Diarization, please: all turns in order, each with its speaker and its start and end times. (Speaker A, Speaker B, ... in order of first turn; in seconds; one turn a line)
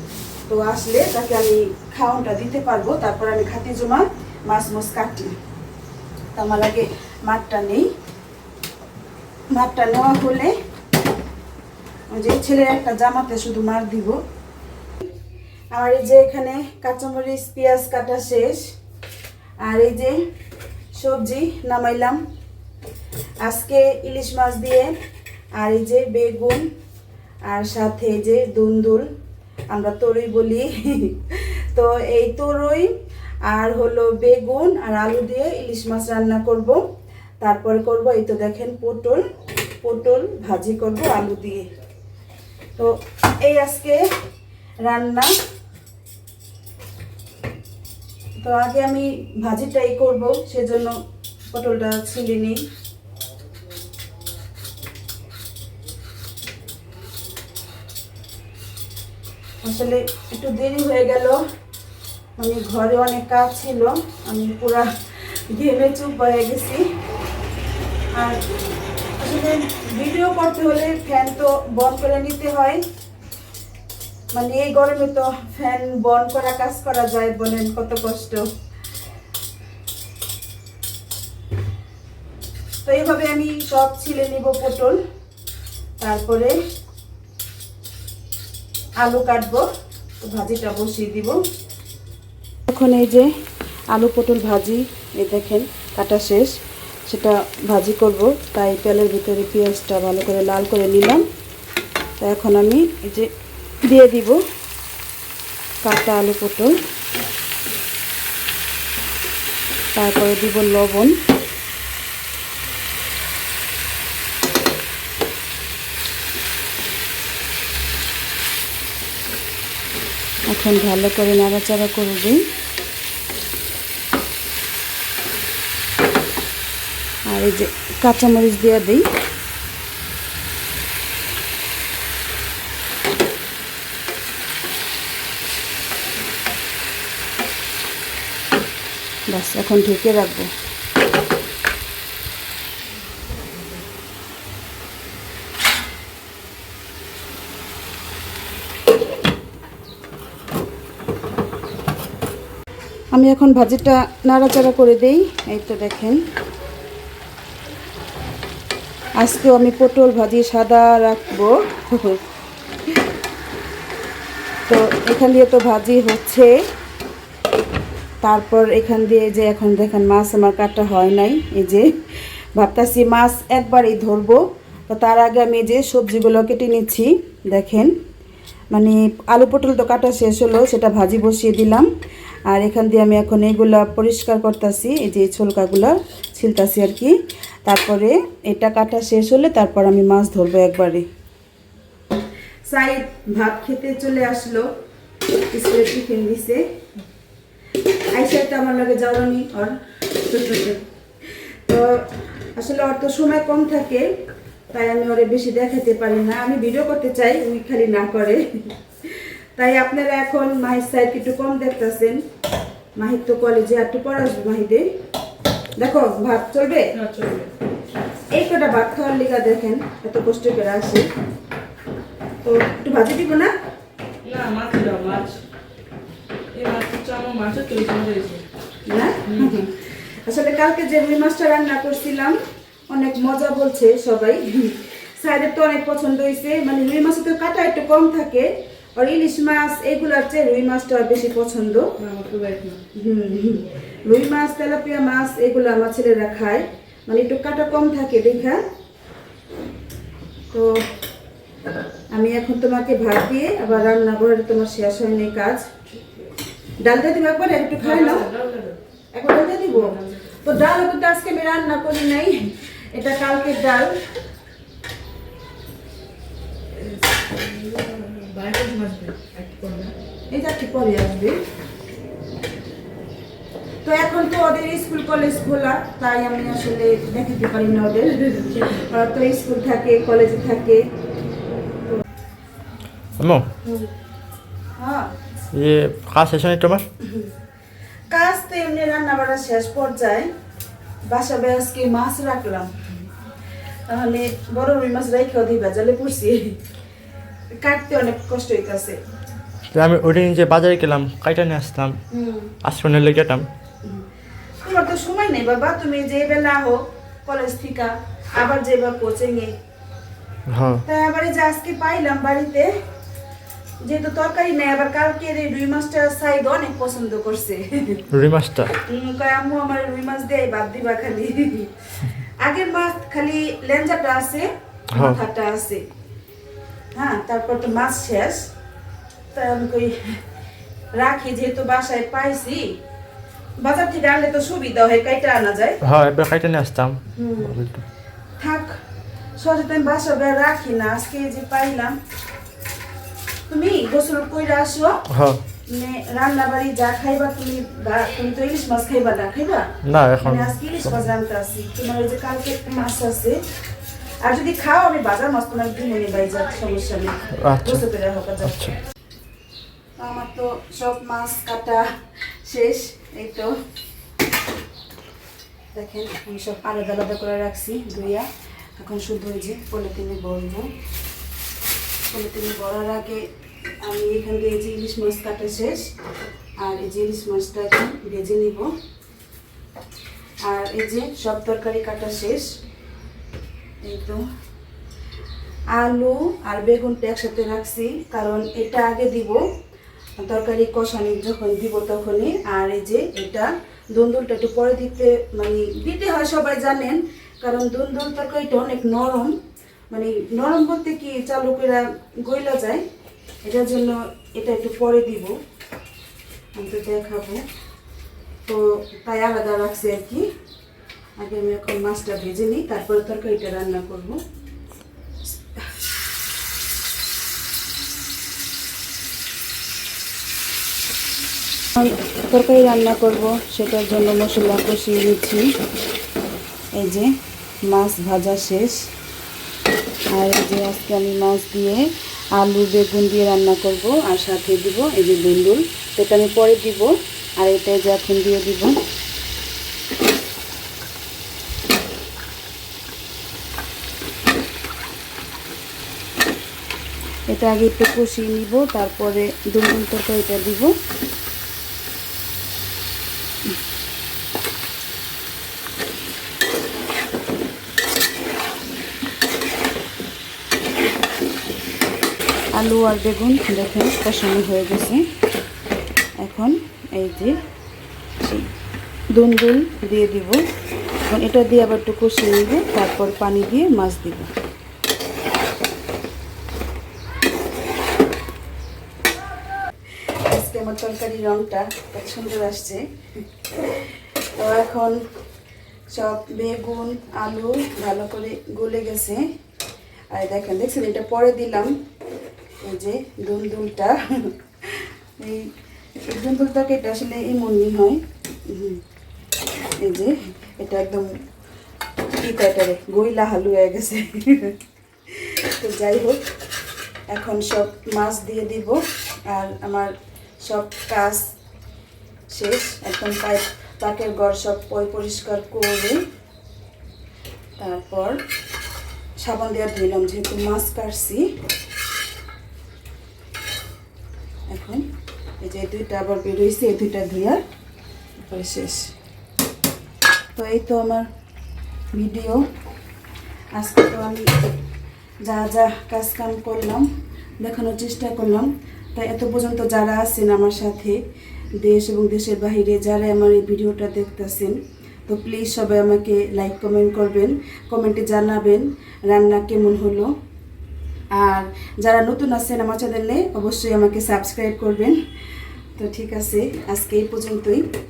Speaker A: 0.5-5.3
Speaker A: 6.3-7.9
Speaker A: 9.5-10.5
Speaker A: 12.1-14.2
Speaker A: 15.7-18.7
Speaker A: 19.6-20.2
Speaker A: 20.9-22.2
Speaker A: 23.4-24.9
Speaker A: 25.6-26.6
Speaker A: 27.5-29.1
Speaker A: 29.7-32.9
Speaker A: 33.4-36.8
Speaker A: 37.4-39.2
Speaker A: 39.8-41.7
Speaker A: 42.8-44.0
Speaker A: 44.8-45.3
Speaker A: 48.4-51.0
Speaker A: 51.5-52.6
Speaker A: 59.6-61.4
Speaker A: 62.4-64.9
Speaker A: 65.5-66.8
Speaker A: 69.2-72.8
Speaker A: 74.3-78.5
Speaker A: 82.8-85.0
Speaker A: 86.0-86.6
Speaker A: 89.0-89.7
Speaker A: 90.2-91.4
Speaker A: 92.7-93.3
Speaker A: 93.9-96.5
Speaker A: 97.1-101.2
Speaker A: 102.2-103.3
Speaker A: 103.9-104.4
Speaker A: 105.8-106.8
Speaker A: 109.9-111.1
Speaker A: 120.5-122.4
Speaker A: 127.3-129.0
Speaker A: 139.3-140.5
Speaker A: 153.1-156.2
Speaker A: 159.2-162.2
Speaker A: 164.7-166.5
Speaker A: 168.2-171.9
Speaker A: 172.5-177.9
Speaker A: 178.7-181.9
Speaker A: 182.5-187.1
Speaker A: 187.7-191.1
Speaker A: 192.7-194.7
Speaker A: 195.5-196.6
Speaker A: 198.1-200.8
Speaker A: 201.7-204.1
Speaker A: 204.7-212.2
Speaker A: 213.0-214.9
Speaker A: 215.8-216.9
Speaker B: 216.9-217.5
Speaker A: 218.3-221.1
Speaker A: 222.4-223.5
Speaker B: 224.2-225.4
Speaker B: 226.5-228.4
Speaker A: 228.8-232.3
Speaker B: 229.2-229.5
Speaker A: 232.9-241.9
Speaker B: 242.0-242.8
Speaker A: 242.9-248.6
Speaker A: 250.5-250.8
Speaker A: 252.1-255.7
Speaker B: 255.9-256.2
Speaker A: 256.8-258.3
Speaker B: 257.8-258.8
Speaker A: 259.1-263.9
Speaker B: 259.7-260.3
Speaker B: 266.8-269.9
Speaker A: 270.3-271.4
Speaker A: 273.8-280.8
Speaker B: 278.5-278.8
Speaker C: 283.2-283.4
Speaker A: 283.6-283.9
Speaker A: 284.8-285.1
Speaker C: 285.5-286.9
Speaker A: 287.0-287.3
Speaker A: 288.1-290.3
Speaker A: 291.1-292.8
Speaker A: 293.9-296.5
Speaker A: 297.6-299.0
Speaker C: 299.7-302.0
Speaker A: 302.1-302.5
Speaker C: 302.6-303.5
Speaker A: 304.6-309.5
Speaker C: 310.5-310.8
Speaker A: 310.9-312.7
Speaker A: 313.8-318.0
Speaker C: 318.1-318.7
Speaker A: 318.7-325.9
Speaker C: 324.9-325.2
Speaker A: 326.9-328.5
Speaker A: 329.3-330.2
Speaker A: 330.9-332.7
Speaker A: 333.6-335.8
Speaker C: 335.8-337.8
Speaker A: 337.1-337.6
Speaker A: 338.4-338.8
Speaker A: 339.4-342.0
Speaker A: 343.5-345.0
Speaker C: 345.1-345.4
Speaker A: 345.7-353.4
Speaker C: 349.8-350.5
Speaker A: 354.2-358.6
Speaker C: 357.4-357.8
Speaker C: 358.5-358.7
Speaker A: 360.0-361.9
Speaker A: 362.4-363.5
Speaker A: 365.7-370.7
Speaker A: 372.1-373.3
Speaker A: 373.8-375.9
Speaker A: 376.6-378.7
Speaker A: 380.4-382.5
Speaker A: 383.8-384.2
Speaker A: 385.7-389.4
Speaker A: 390.2-399.3
Speaker A: 399.9-402.8
Speaker A: 403.4-405.4
Speaker A: 406.6-407.4
Speaker A: 408.4-410.3
Speaker A: 411.2-414.2
Speaker A: 421.8-425.5
Speaker A: 426.8-427.1
Speaker A: 427.7-428.8
Speaker A: 430.1-438.7
Speaker A: 447.3-450.7
Speaker A: 462.5-465.0
Speaker A: 466.2-467.4
Speaker A: 468.2-468.5
Speaker A: 469.1-470.4
Speaker A: 471.1-474.3
Speaker A: 480.2-482.8
Speaker A: 484.4-485.0
Speaker A: 485.9-489.2
Speaker A: 490.1-491.7
Speaker A: 492.6-495.5
Speaker A: 496.0-498.8
Speaker A: 499.8-501.1
Speaker A: 502.2-504.6
Speaker A: 505.1-506.2
Speaker A: 507.1-511.3
Speaker A: 512.3-516.0
Speaker A: 517.6-518.2
Speaker A: 519.2-521.2
Speaker A: 524.5-524.8
Speaker A: 525.4-527.4
Speaker A: 528.2-528.9
Speaker A: 530.3-531.1
Speaker A: 531.9-532.4
Speaker A: 533.5-534.3
Speaker A: 535.2-536.9
Speaker A: 537.4-541.0
Speaker A: 541.6-550.1
Speaker A: 551.1-555.0
Speaker A: 555.8-557.6